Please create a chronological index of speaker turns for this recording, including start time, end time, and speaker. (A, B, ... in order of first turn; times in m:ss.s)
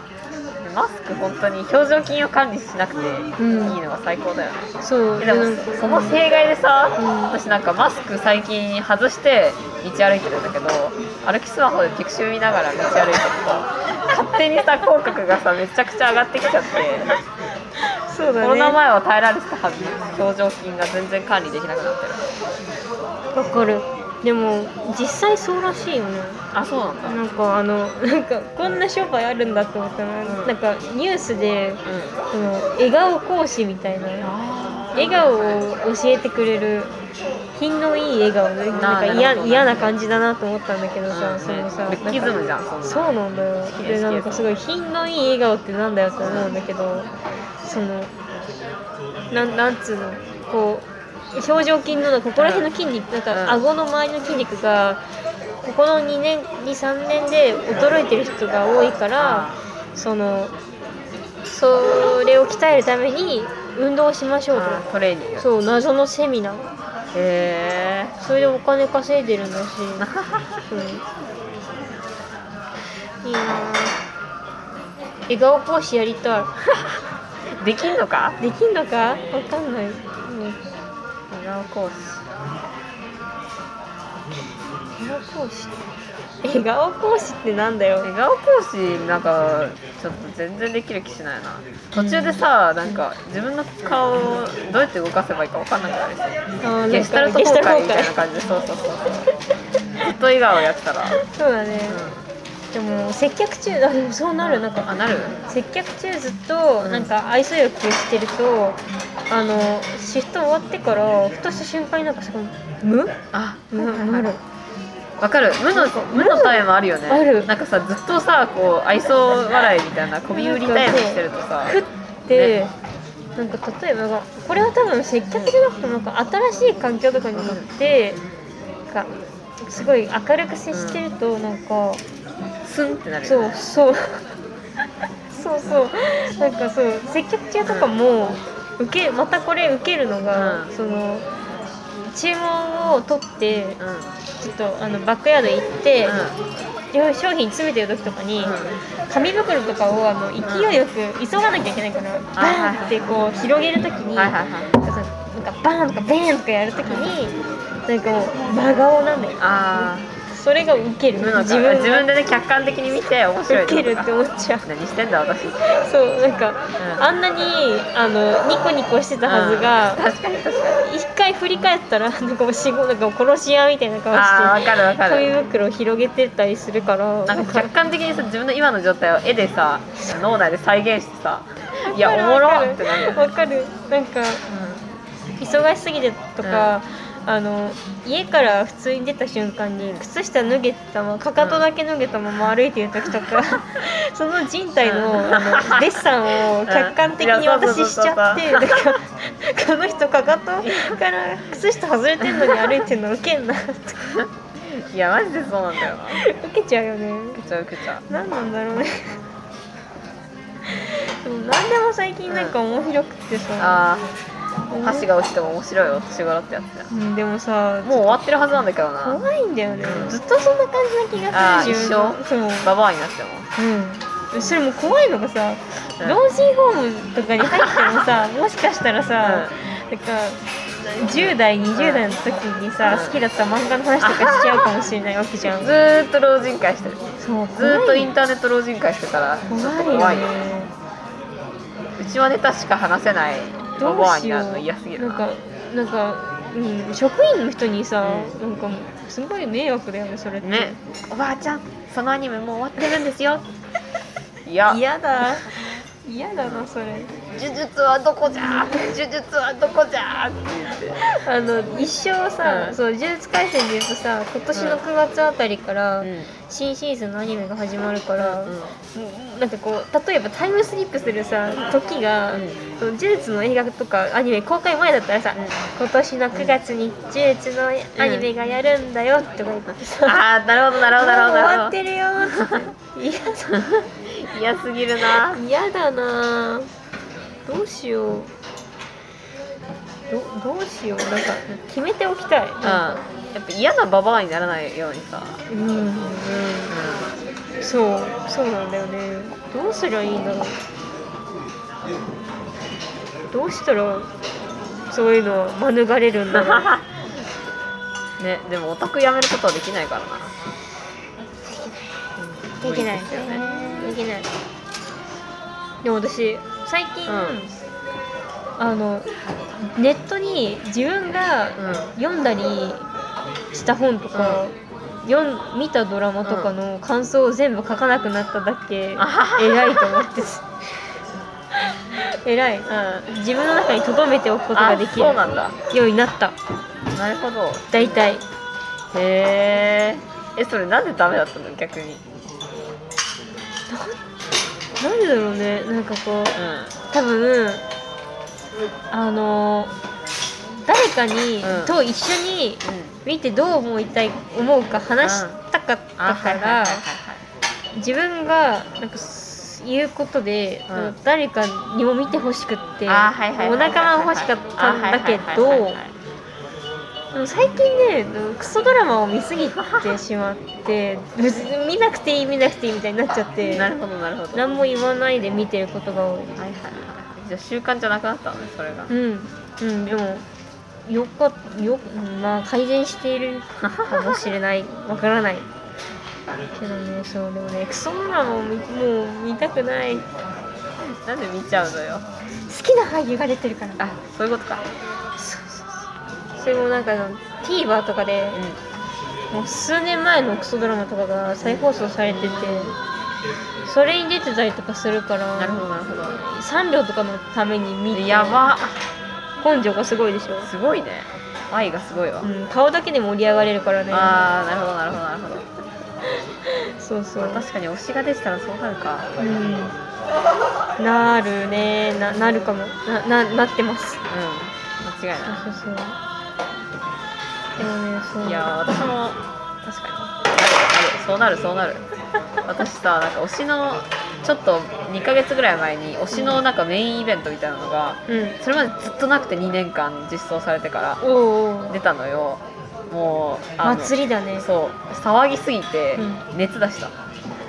0:00.6-0:17.1 A
0:03.4-0:03.8 B
0:04.8-0:06.2 B
0:07.0-0:07.3 B
0:18.1-0:18.8 B
0:18.4-0:22.2 A
0:23.3-0:26.4 B
0:26.5-0:27.2 A
0:27.0-0:31.8 B
0:30.2-0:30.5 A
0:31.8-0:32.1 A
0:32.3-0:34.3 B
0:34.2-0:35.6 A
0:34.9-0:36.9 B
0:37.6-0:47.1 B
0:38.7-0:39.9 A
0:41.1-0:43.1 A
0:43.7-0:44.5 A
0:46.2-0:46.5 A
0:47.6-0:48.1 B
0:49.3-0:55.0 B
0:52.4-0:52.7 A
0:53.3-0:53.6 A
0:55.6-1:00.5 B
0:59.2-0:59.6 A
1:01.4-1:04.8 B
1:04.5-1:05.5 A
1:05.4-1:06.7 B
1:07.1-1:08.1 A
1:08.2-1:10.1 B
1:10.0-1:10.6 A
1:10.7-1:11.0 B
1:13.2-1:14.0 B
1:15.3-1:16.5 B
1:17.6-1:18.4 A
1:18.4-1:20.6 B
1:21.3-1:22.2 A
1:25.0-1:25.8 B
1:26.4-1:28.1 B
1:28.0-1:36.2 A
1:31.9-1:33.0 B
1:36.6-1:38.1 B
1:36.9-1:39.2 A
1:40.0-1:41.2 A
1:41.2-1:42.0 B
1:41.9-1:42.2 A
1:42.7-1:44.9 B
1:44.4-1:45.4 A
1:45.5-1:53.1 B
1:46.8-1:47.1 A
1:53.3-1:54.3 A
1:53.7-1:54.4 B
1:55.2-2:01.8 A
1:55.7-1:57.5 B
2:00.3-2:02.7 B
2:02.3-2:02.6 A
2:03.4-2:08.2 B
2:07.4-2:07.7 A
2:09.6-2:12.0 B
2:10.7-2:11.0 A
2:12.6-2:13.6 A
2:13.2-2:14.2 B
2:15.3-2:21.2 B
2:17.6-2:17.9 A
2:20.3-2:20.7 A
2:22.1-2:23.8 B
2:23.8-2:24.1 A
2:24.4-2:26.2 B
2:26.0-2:26.4 A
2:26.9-2:37.3 B
2:28.4-2:28.8 A
2:30.4-2:30.8 A
2:32.4-2:32.9 A
2:34.2-2:34.8 A
2:37.9-2:42.1 B
2:39.4-2:40.1 A
2:41.2-2:44.1 A
2:43.5-2:44.7 B
2:44.6-2:45.6 A
2:45.6-2:50.0 B
2:46.8-2:47.1 A
2:49.2-2:50.8 A
2:50.8-2:57.7 B
2:54.1-2:55.3 A
2:57.3-3:03.3 A
3:01.8-3:04.4 B
3:04.5-3:04.8 A
3:05.4-3:24.1 B
3:06.4-3:06.7 A
3:14.8-3:16.0 A
3:16.6-3:18.9 A
3:20.6-3:21.0 A
3:24.1-3:26.2 A
3:26.1-3:27.4 B
3:27.3-3:28.0 A
3:28.1-3:29.2 B
3:30.6-3:33.8 B
3:32.3-3:32.6 A
3:33.6-3:34.0 A
3:34.7-3:35.1 B
3:34.8-3:36.9 A
3:36.9-3:38.2 B
3:37.8-3:39.2 A
3:39.0-3:42.7 B
3:39.8-3:40.2 A
3:41.3-3:43.5 A
3:43.6-3:55.7 B
3:47.5-3:47.8 A
3:49.2-3:49.5 A
3:51.1-3:52.0 A
3:52.8-3:53.2 A
3:54.0-3:54.7 A
3:55.6-3:57.0 A
3:57.2-3:58.1 B
3:57.6-4:00.3 A
3:59.5-4:00.7 B
4:02.0-4:05.2 A
4:03.8-4:10.8 B
4:08.0-4:08.4 A
4:10.4-4:13.4 A
4:14.4-4:14.8 A
4:14.7-4:15.5 B
4:16.0-4:17.1 B
4:17.3-4:21.0 A
4:18.4-4:18.8 B
4:21.1-4:40.2 B
4:22.4-4:22.8 A
4:24.5-4:24.8 A
4:26.0-4:26.3 A
4:28.2-4:28.7 A
4:32.3-4:32.6 A
4:38.0-4:38.2 A
4:40.0-4:42.6 A
4:40.8-4:43.6 B
4:43.6-4:45.4 A
4:45.1-4:46.7 B
4:47.4-4:48.3 B
4:50.1-4:53.0 B
4:52.6-4:55.4 A
4:55.5-4:56.7 B
4:56.7-4:57.1 A
4:57.6-5:00.5 B
5:03.3-5:04.1 B
5:04.9-5:06.7 B
5:06.3-5:06.8 A
5:08.2-5:10.3 A
5:11.5-5:11.8 B
5:12.2-5:13.9 A
5:12.6-5:14.3 B
5:15.8-5:17.5 B
5:17.1-5:17.5 A
5:18.6-5:19.1 B
5:19.6-5:22.8 B
5:21.6-5:21.9 A
5:23.5-5:30.5 B
5:24.1-5:24.4 A
5:26.2-5:26.5 A
5:29.0-5:30.0 A
5:31.5-5:36.4 B
5:32.7-5:33.1 A
5:34.5-5:35.6 A
5:36.9-5:38.0 A
5:37.7-5:38.2 B
5:38.9-5:42.0 A
5:43.7-5:44.0 B
5:44.8-5:46.4 B
5:46.4-5:46.7 A
5:46.9-5:47.6 B
5:48.9-5:49.7 B
5:50.6-5:56.8 B
5:51.4-5:51.7 A
5:52.6-5:53.0 A
5:55.0-5:55.4 A
5:56.0-5:57.2 A
5:57.7-6:05.8 B
6:00.7-6:00.9 A
6:02.9-6:05.9 A
6:07.1-6:13.7 B
6:09.6-6:09.9 A
6:13.5-6:14.4 A
6:14.3-6:16.4 B
6:16.4-6:18.9 A
6:18.9-6:20.2 B
6:20.8-6:25.5 B
6:23.6-6:24.2 A
6:26.6-6:30.1 B
6:30.8-6:32.0 A
6:32.5-6:33.8 B
6:33.8-6:34.6 A
6:35.2-6:35.8 B
6:36.4-6:38.4 B
6:39.3-6:42.7 B
6:41.4-6:42.7 A
6:43.6-6:48.4 B
6:45.4-6:46.2 A
6:47.9-6:48.8 A
6:49.4-6:50.5 B
6:50.4-6:52.3 A
6:52.2-6:54.2 B
6:53.9-6:55.4 A
6:56.4-6:57.4 B
6:57.2-6:59.1 A
6:59.2-6:59.8 B
7:00.8-7:04.0 B
7:04.1-7:05.4 A
7:05.2-7:06.0 B
7:07.6-7:08.5 B
7:08.2-7:11.8 A
7:12.4-7:21.0 A
7:16.1-7:16.4 B
7:18.1-7:18.4 B
7:21.0-7:21.8 B
7:21.7-7:26.9 A
7:23.6-7:24.4 B
7:26.0-7:26.2 B